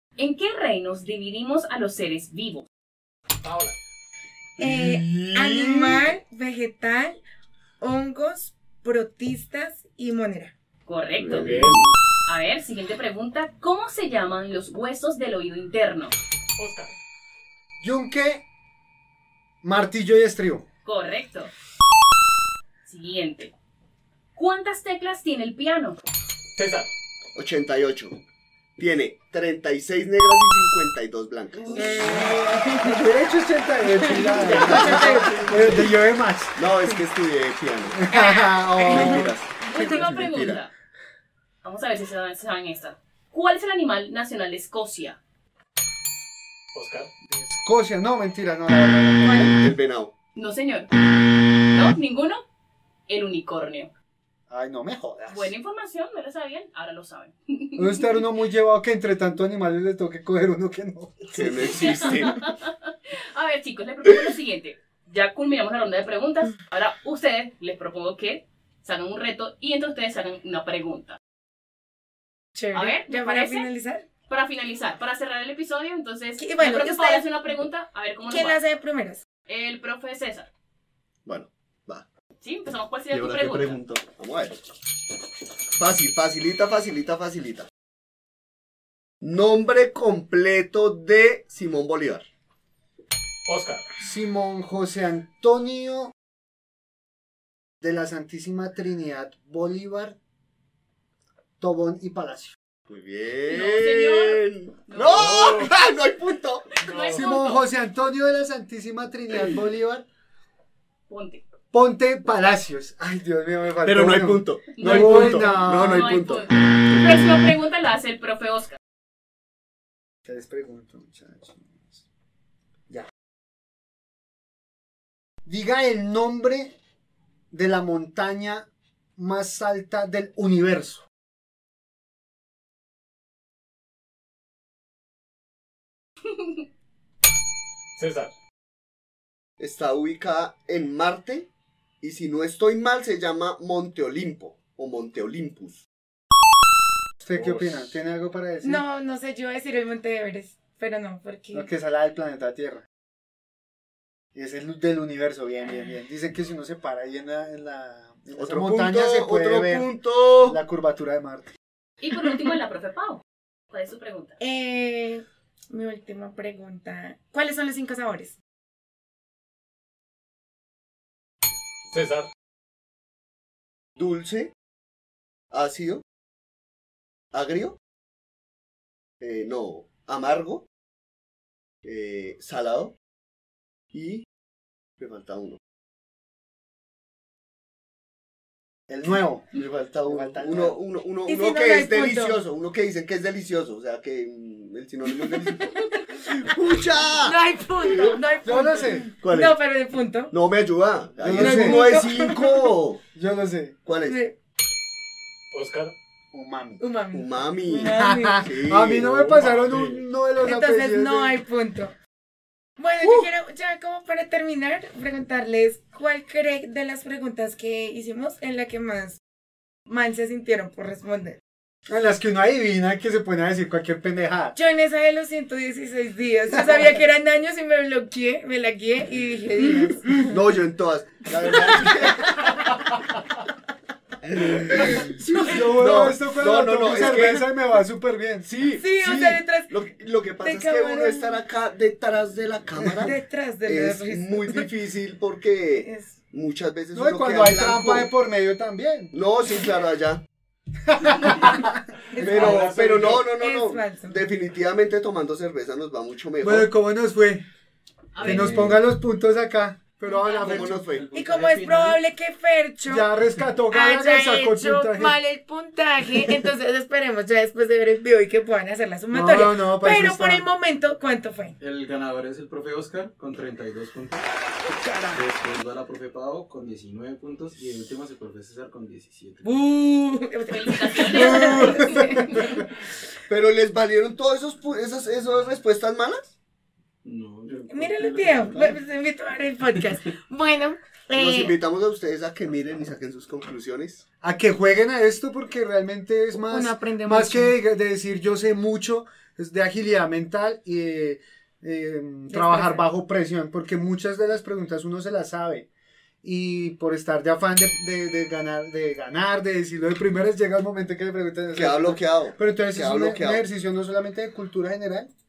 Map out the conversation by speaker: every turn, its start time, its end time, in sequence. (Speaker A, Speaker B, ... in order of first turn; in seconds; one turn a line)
Speaker A: 0.2-2.6
Speaker B: 3.4-3.8
Speaker C: 4.6-6.1
Speaker D: 4.6-7.2
Speaker D: 7.8-10.5
Speaker A: 10.9-11.5
Speaker C: 11.2-11.9
Speaker B: 11.3-11.8
Speaker A: 12.3-16.1
Speaker B: 16.6-16.9
Speaker E: 17.8-18.4
Speaker E: 19.6-20.6
Speaker A: 20.8-21.5
Speaker A: 22.8-23.5
Speaker A: 24.3-26.0
Speaker B: 26.6-26.9
Speaker C: 27.3-28.2
Speaker C: 28.8-32.2
Speaker A: 31.6-32.3
Speaker D: 31.7-33.1
Speaker E: 32.1-36.6
Speaker D: 33.9-35.5
Speaker C: 34.5-35.7
Speaker C: 36.5-38.0
Speaker E: 37.9-40.0
Speaker A: 38.1-40.7
Speaker C: 38.9-40.6
Speaker A: 41.6-45.2
Speaker B: 46.7-47.1
Speaker E: 47.3-49.7
Speaker C: 49.2-50.1
Speaker A: 50.4-50.9
Speaker A: 51.7-52.4
Speaker A: 53.1-53.9
Speaker E: 54.5-55.5
Speaker A: 55.3-58.2
Speaker E: 57.8-61.5
Speaker C: 61.3-62.4
Speaker A: 61.7-71.2
Speaker D: 72.5-74.0
Speaker A: 72.7-73.7
Speaker A: 74.3-78.6
Speaker D: 76.4-77.3
Speaker D: 78.3-79.2
Speaker A: 79.5-80.5
Speaker C: 81.2-82.0
Speaker A: 82.4-83.8
Speaker C: 83.1-84.6
Speaker C: 85.8-87.7
Speaker C: 89.2-92.2
Speaker B: 93.5-93.9
Speaker E: 94.0-96.1
Speaker E: 97.8-100.2
Speaker E: 101.6-102.5
Speaker C: 102.9-106.8
Speaker A: 103.5-105.6
Speaker B: 105.1-105.7
Speaker A: 106.7-107.6
Speaker B: 106.9-107.4
Speaker E: 107.1-110.0
Speaker A: 111.1-111.4
Speaker E: 111.7-116.1
Speaker C: 113.8-117.3
Speaker A: 114.8-118.8
Speaker E: 120.3-122.0
Speaker E: 125.4-126.8
Speaker E: 127.5-131.0
Speaker B: 137.9-138.3
Speaker C: 139.6-141.5
Speaker C: 142.0-145.8
Speaker E: 147.2-148.8
Speaker B: 147.3-148.0
Speaker D: 148.6-151.7
Speaker E: 151.5-152.8
Speaker E: 154.3-161.5
Speaker C: 158.3-160.6
Speaker A: 162.0-164.4
Speaker D: 164.4-168.4
Speaker B: 171.9-172.3
Speaker C: 174.0-174.5
Speaker C: 175.5-176.0
Speaker C: 177.3-177.8
Speaker C: 179.2-180.7
Speaker C: 181.8-182.9
Speaker C: 183.9-184.2
Speaker C: 185.0-185.6
Speaker E: 188.9-190.8
Speaker C: 189.5-198.3
Speaker D: 191.2-192.4
Speaker D: 197.1-200.3
Speaker E: 198.4-199.1
Speaker C: 199.2-199.6
Speaker C: 200.3-203.0
Speaker E: 201.2-202.0
Speaker D: 201.4-202.7
Speaker E: 203.1-203.8
Speaker C: 203.8-204.2
Speaker D: 204.0-204.3
Speaker B: 205.5-205.9
Speaker E: 206.3-206.8
Speaker D: 206.8-208.5
Speaker C: 207.1-209.1
Speaker E: 207.8-211.4
Speaker B: 209.0-210.0
Speaker D: 210.4-211.9
Speaker D: 212.8-219.2
Speaker C: 213.0-213.3
Speaker D: 219.9-221.4
Speaker E: 221.9-224.6
Speaker D: 224.5-230.4
Speaker C: 230.3-232.4
Speaker D: 231.4-232.6
Speaker C: 234.2-237.4
Speaker E: 234.7-238.5
Speaker D: 234.9-236.0
Speaker D: 236.8-237.4
Speaker C: 238.4-248.1
Speaker D: 238.7-239.8
Speaker E: 239.0-239.4
Speaker D: 240.4-241.4
Speaker D: 242.8-244.7
Speaker E: 242.8-243.1
Speaker D: 245.8-246.2
Speaker E: 246.9-249.1
Speaker C: 249.1-250.2
Speaker E: 250.9-251.7
Speaker D: 252.1-252.7
Speaker C: 252.2-256.7
Speaker B: 252.2-253.2
Speaker D: 253.2-254.2
Speaker E: 256.4-257.4
Speaker A: 258.1-258.6
Speaker F: 258.2-258.8
Speaker E: 258.2-260.9
Speaker D: 260.0-260.6
Speaker C: 260.4-261.1
Speaker F: 260.7-262.0
Speaker D: 261.1-263.1
Speaker E: 262.8-265.2
Speaker D: 263.7-271.6
Speaker E: 269.1-270.5
Speaker F: 271.6-274.2
Speaker D: 274.7-275.2
Speaker F: 275.1-279.7
Speaker D: 279.4-282.6
Speaker A: 280.5-282.5
Speaker E: 281.2-282.2
Speaker C: 283.3-286.3
Speaker F: 287.0-288.8
Speaker D: 287.7-291.6
Speaker C: 291.1-294.0
Speaker E: 294.2-305.7
Speaker D: 296.3-297.5
Speaker D: 302.3-302.8
Speaker E: 306.2-315.1
Speaker C: 311.5-313.4